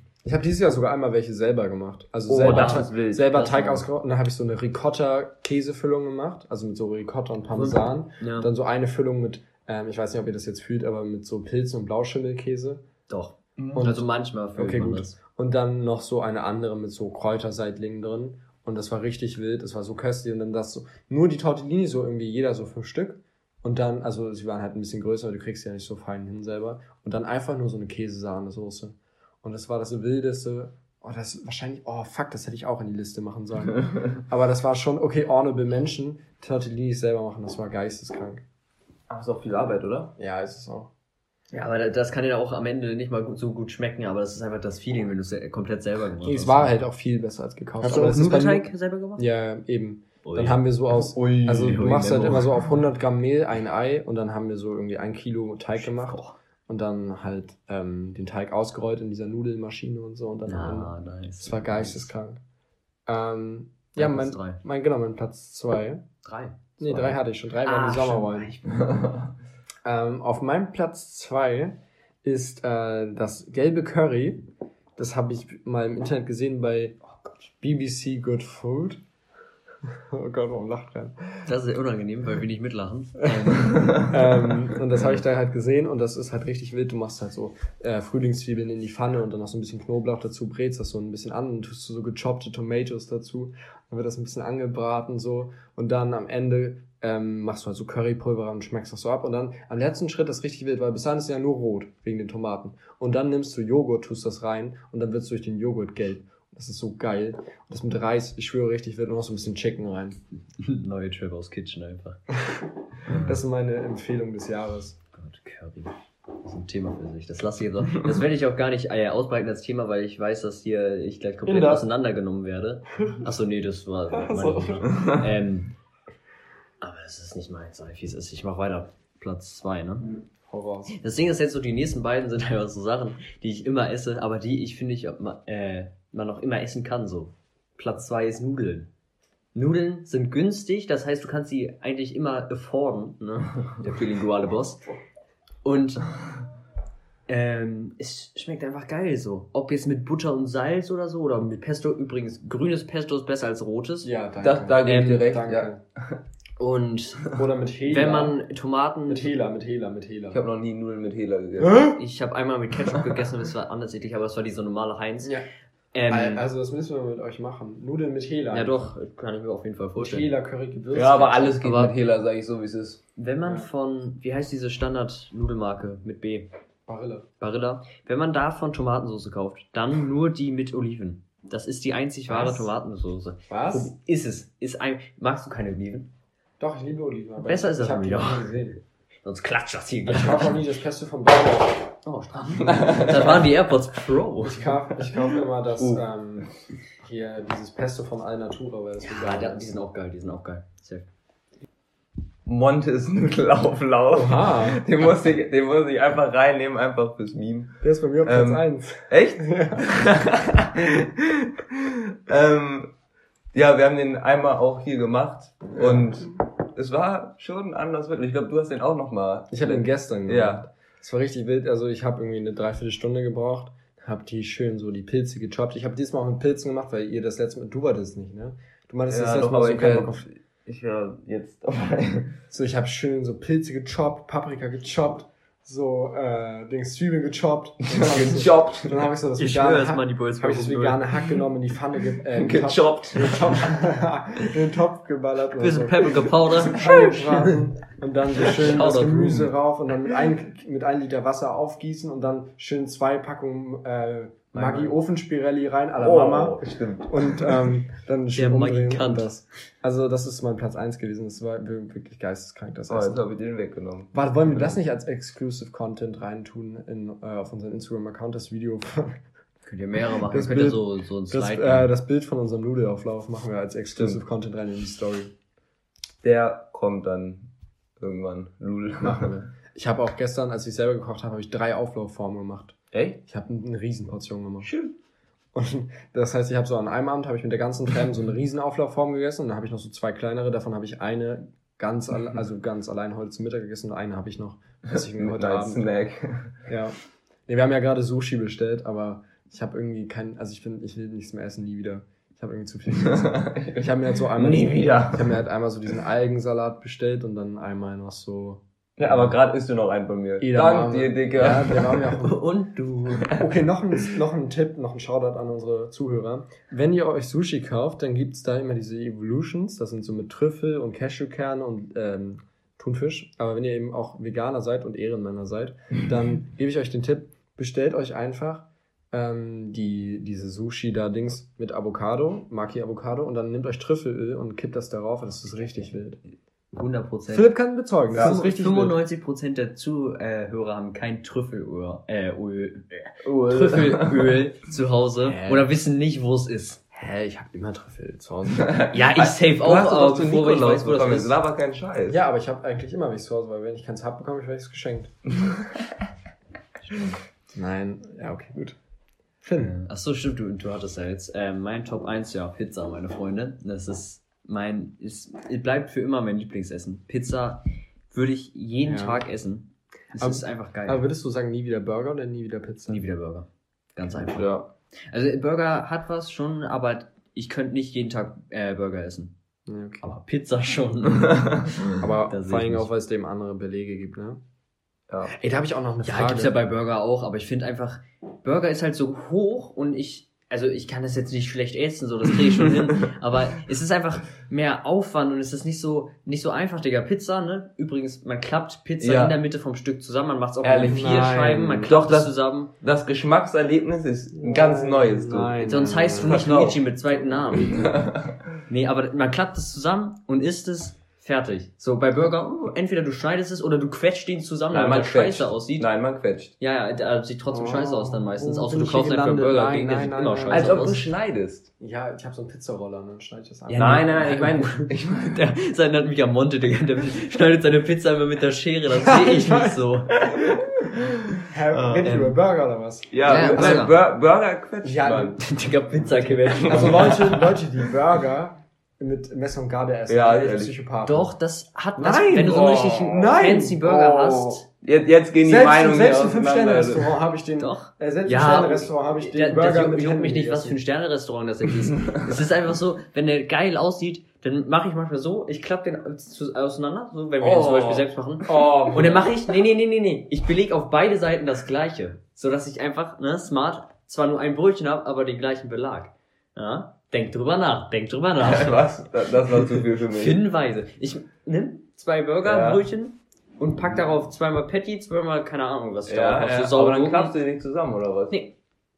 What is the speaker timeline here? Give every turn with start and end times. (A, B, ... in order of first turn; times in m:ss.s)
0:00.2-0:12.8 A
0:02.3-0:03.4 B
0:02.4-0:03.8 C
0:07.6-0:08.5 C
0:13.1-0:15.2 C
0:13.6-0:13.9 B
0:13.8-0:38.4 A
0:39.1-0:40.1 B
0:40.2-0:40.9 A
0:41.5-0:46.7 C
0:46.2-1:02.4 A
0:47.8-0:49.3 C
0:50.2-0:52.4 C
0:51.5-0:52.4 B
0:55.8-0:56.4 C
1:00.5-1:02.1 C
1:03.1-1:06.1 A
1:04.0-1:04.6 C
1:06.2-1:08.8 C
1:06.8-1:08.6 A
1:08.6-1:09.3 B
1:09.8-1:14.4 A
1:15.0-1:17.0 A
1:17.6-1:19.0 A
1:20.0-1:21.3 A
1:21.5-1:24.1 C
1:23.9-1:50.2 A
1:50.6-1:52.2 C
1:53.1-1:53.4 C
1:53.1-1:55.0 A
1:55.1-2:05.7 C
2:01.4-2:01.9 A
2:04.1-2:05.0 A
2:04.9-2:05.3 B
2:06.8-2:10.1 C
2:10.5-2:11.0 A
2:10.9-2:18.9 C
2:19.6-2:24.8 C
2:25.6-2:26.1 C
2:27.3-2:34.1 C
2:34.0-2:35.8 A
2:34.4-2:36.2 B
2:34.9-2:35.2 C
2:36.6-2:39.4 C
2:37.3-2:38.4 A
2:39.1-2:40.4 A
2:40.3-2:42.0 B
2:41.6-2:42.0 A
2:41.9-2:45.4 C
2:45.9-2:46.4 C
2:46.1-2:49.0 A
2:48.5-2:50.3 C
2:50.0-2:51.5 A
2:50.9-2:53.0 B
2:51.6-2:52.0 C
2:53.2-2:56.5 C
2:53.4-2:53.7 A
2:56.9-2:57.3 A
2:57.4-3:06.1 C
3:02.3-3:02.7 A
3:03.5-3:03.9 A
3:06.6-3:08.8 A
3:07.4-3:08.5 C
3:09.2-3:10.6 C
3:10.1-3:11.9 A
3:12.0-3:14.8 C
3:12.6-3:13.5 B
3:14.4-3:19.8 A
3:15.8-3:16.0 B
3:19.0-3:21.1 C
3:22.4-3:32.9 B
3:24.1-3:24.8 A
3:27.8-3:29.9 A
3:33.5-3:40.7 B
3:39.5-3:50.3 A
3:49.1-3:52.4 B
3:52.5-4:23.2 A
3:57.9-3:59.1 B
3:59.4-4:01.4 C
4:02.3-4:03.5 B
4:05.6-4:07.6 C
4:08.4-4:09.5 C
4:14.5-4:15.0 C
4:16.0-4:17.7 B
4:18.3-4:19.3 C
4:22.9-4:24.8 B
4:24.1-4:29.2 A
4:29.7-4:31.9 C
4:30.3-4:35.4 A
4:33.9-4:34.2 B
4:36.2-4:39.3 B
4:39.0-4:44.7 A
4:42.9-4:43.2 B
4:44.6-4:44.9 B
4:45.5-4:55.9 A
4:54.9-4:56.6 B
4:56.7-5:09.4 A
5:03.0-5:05.4 B
5:09.0-5:12.2 B
5:10.4-5:12.4 A
5:12.3-5:13.3 C
5:13.1-5:13.4 B
5:13.3-5:36.2 A
5:36.7-5:37.6 C
5:37.3-5:39.0 A
5:38.1-5:46.8 C
5:38.1-5:38.4 B
5:43.2-5:44.4 B
5:45.2-5:45.7 A
5:46.9-5:48.8 A
5:48.6-5:52.2 B
5:48.9-5:51.3 C
5:52.1-5:55.1 A
5:55.4-5:55.8 B
5:57.6-5:58.8 A
5:59.4-5:59.7 A
5:59.6-6:11.0 C
6:08.8-6:09.2 A
6:10.2-6:13.0 A
6:12.9-6:14.6 C
6:14.3-6:14.7 B
6:15.1-6:19.3 C
6:19.7-6:20.1 A
6:20.0-6:22.9 C
6:22.0-6:24.4 A
6:25.3-6:26.6 A
6:26.0-6:42.7 C
6:39.0-6:39.4 B
6:40.6-6:41.4 B
6:40.9-6:41.9 A
6:41.9-6:46.9 B
6:44.4-6:46.5 A
6:45.6-6:47.9 C
6:47.1-6:48.0 A
6:47.6-6:48.4 B
6:48.7-6:55.9 C
6:54.7-6:56.5 B
6:56.6-7:01.1 C
6:57.5-7:01.0 A
7:00.5-7:01.7 B
7:01.8-7:04.6 A
7:03.7-7:10.2 C
7:03.7-7:05.5 B
7:09.0-7:09.8 A
7:10.3-7:11.2 B
7:11.5-7:14.0 A
7:11.7-7:12.1 B
7:12.0-7:12.4 C
7:13.1-7:15.4 B
7:13.2-7:13.9 C
7:14.8-7:15.4 A
7:15.4-7:17.3 C
7:16.4-7:17.6 B
7:16.6-7:21.3 A
7:20.1-7:20.8 B
7:21.0-7:24.6 C
7:22.0-7:24.6 A
7:22.3-7:23.3 B
7:24.8-7:27.2 B
7:25.4-7:30.8 A
7:27.6-7:48.9 C
7:37.5-7:38.1 B
7:38.4-7:39.2 A
7:48.4-7:50.4 B
7:50.1-7:57.4 C
7:52.4-7:52.9 B
7:56.1-7:58.5 B